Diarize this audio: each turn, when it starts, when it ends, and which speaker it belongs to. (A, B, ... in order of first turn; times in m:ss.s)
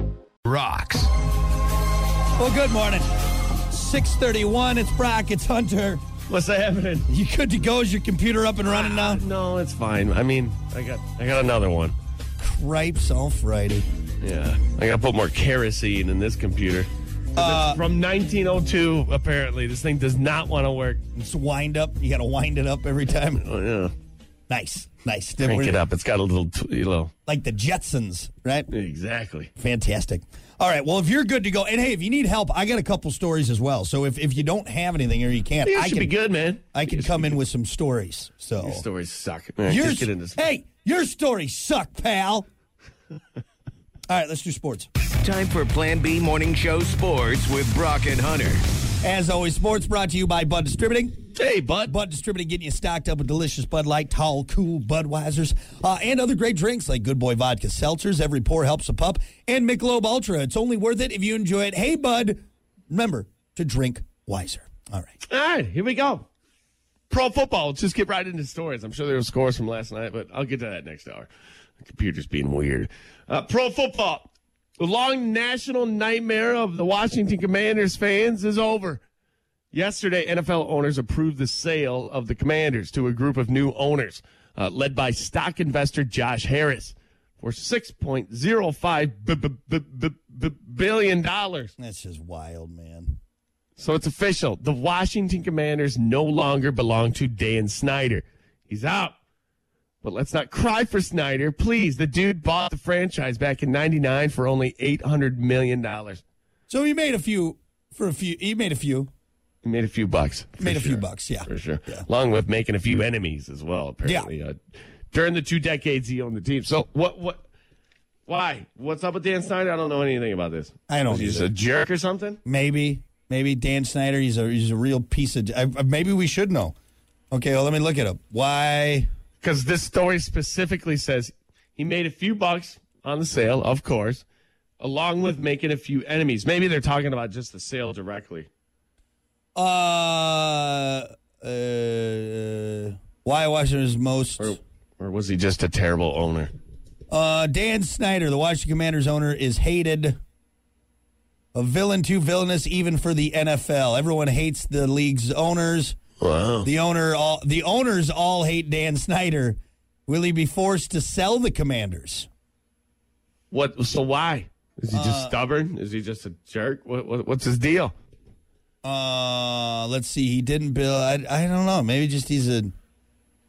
0:00.4-0:01.1 A
0:02.3-0:06.0 B
0:06.3-0:07.1 C
0:07.1-0:09.2 B
0:08.6-0:11.9 C
0:12.4-0:13.8 B
0:14.2-0:21.0 C
0:17.4-0:17.8 B
0:21.1-0:23.4 B
0:23.4-0:23.9 C
0:24.5-0:25.8 B
0:25.4-0:27.1 C
0:27.2-0:28.7 B
0:28.7-0:29.5 C
0:29.6-0:36.1 B
0:35.6-0:37.4 C
0:36.7-0:38.8 B
0:38.6-0:40.5 C
0:39.7-0:42.5 B
0:44.1-0:44.9 B
0:45.2-0:48.6 A
0:49.0-0:51.2 B
0:51.3-0:51.9 C
0:51.9-1:05.1 B
1:05.2-1:06.3 C
1:07.1-1:11.3 C
1:11.8-1:19.0 C
1:19.7-1:31.7 C
1:31.8-1:33.2 B
1:33.8-1:39.2 C
1:40.0-1:46.2 C
1:46.7-1:49.1 B
1:49.6-1:54.6 C
1:50.6-1:52.0 B
1:54.0-1:54.3 B
1:55.1-1:57.4 C
1:58.3-2:02.4 C
2:00.9-2:01.5 B
2:02.4-2:06.7 B
2:07.3-2:09.1 B
2:09.4-2:14.2 C
2:14.8-2:18.5 C
2:19.6-2:24.5 B
2:24.4-2:26.5 C
2:27.1-2:30.2 B
2:31.5-2:36.0 B
2:36.2-2:36.7 C
2:36.6-2:42.3 B
2:43.5-2:47.9 C
2:44.9-2:45.3 B
2:48.8-2:52.7 B